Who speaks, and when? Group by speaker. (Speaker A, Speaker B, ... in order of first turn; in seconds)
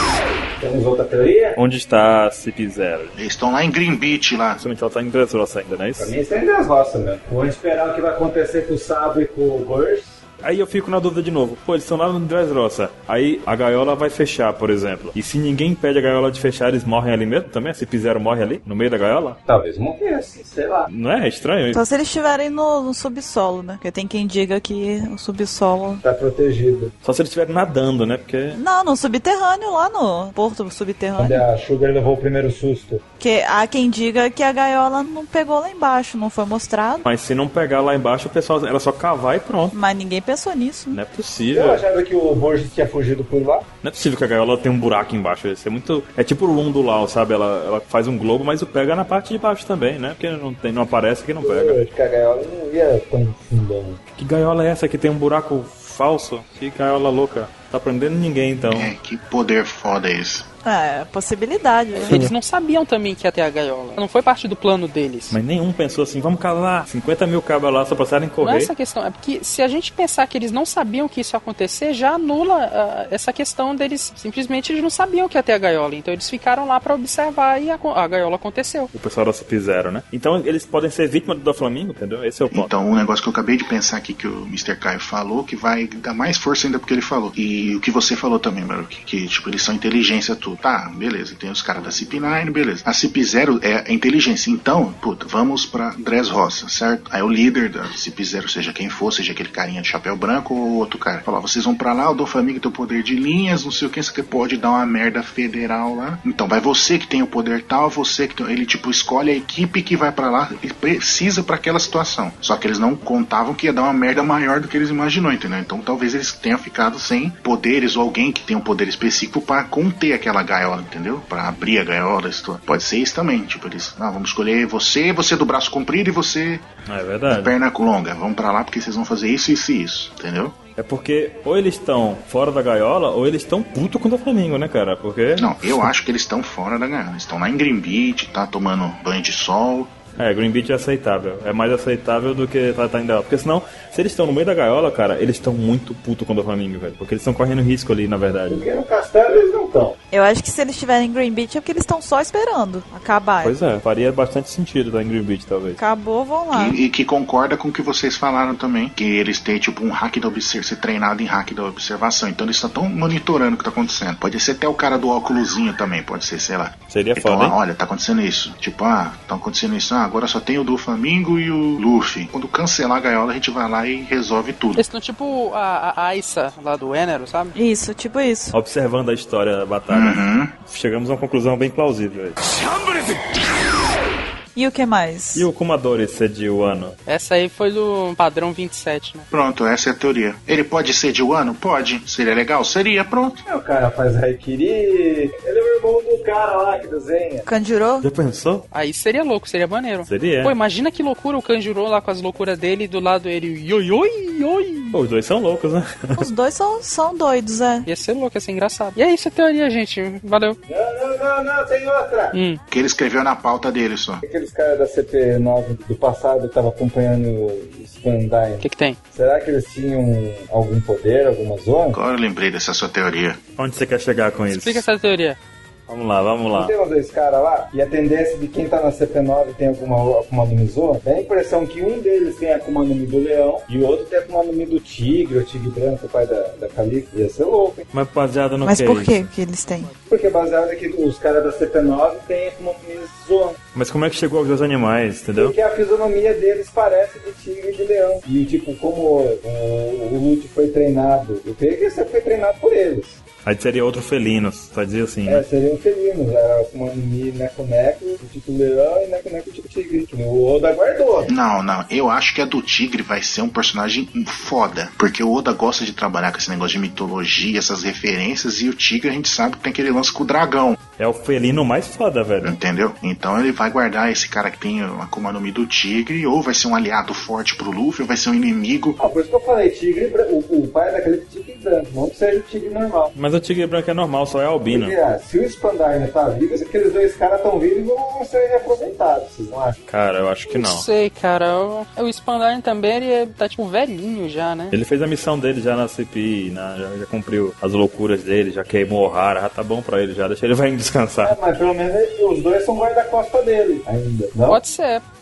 Speaker A: 0.6-1.6, 6.0-10.2, 19.4-20.9, 26.0-26.9, 31.2-33.0, 41.5-43.7, 51.4-54.0, 148.5-150.0, 193.4-197.5, 210.7-212.3, 214.2-222.0, 226.5-237.8, 240.0-243.6, 245.3-253.2, 255.2-261.3, 279.0-283.1, 284.7-289.8, 301.2-304.6
Speaker B: 1.5-3.2, 4.6-6.1, 10.4-19.4, 20.9-21.8, 27.0-28.6, 37.0-39.8, 40.9-41.8, 43.8-51.8, 54.1-58.9, 62.0-62.3, 65.3-68.7, 78.9-82.7, 126.8-127.5, 130.8-135.9, 140.2-148.6, 153.4-155.8, 166.9-167.6, 178.5-183.3, 185.3-187.0, 198.0-198.7, 200.1-200.5, 204.9-206.2, 223.6-224.8, 225.9-226.7, 237.9-239.2, 243.7-245.5, 253.4-255.4, 271.0-272.6, 283.1-284.9, 289.9-290.9, 294.7-301.4
Speaker C: 3.1-4.6, 58.7-60.5, 82.5-126.6, 127.3-130.6, 135.4-139.9, 156.5-174.8, 179.9-180.5, 189.3-193.4, 212.7-214.2, 221.9-223.4, 261.3-270.8, 272.4-279.0
Speaker D: 21.7-26.0, 28.5-31.5, 33.2-37.0, 39.7-41.0, 60.6-62.2, 150.1-153.5, 155.8-156.8, 177.5-178.5, 184.6-185.5, 197.5-198.1, 206.2-207.9, 238.6-239.9
Speaker E: 61.9-65.4, 68.4-78.9, 174.8-177.5, 187.1-189.3, 198.7-204.9, 207.8-210.6, 212.3-212.6, 218.6-219.0, 224.5-225.4, 290.5-294.7, 304.4-305.0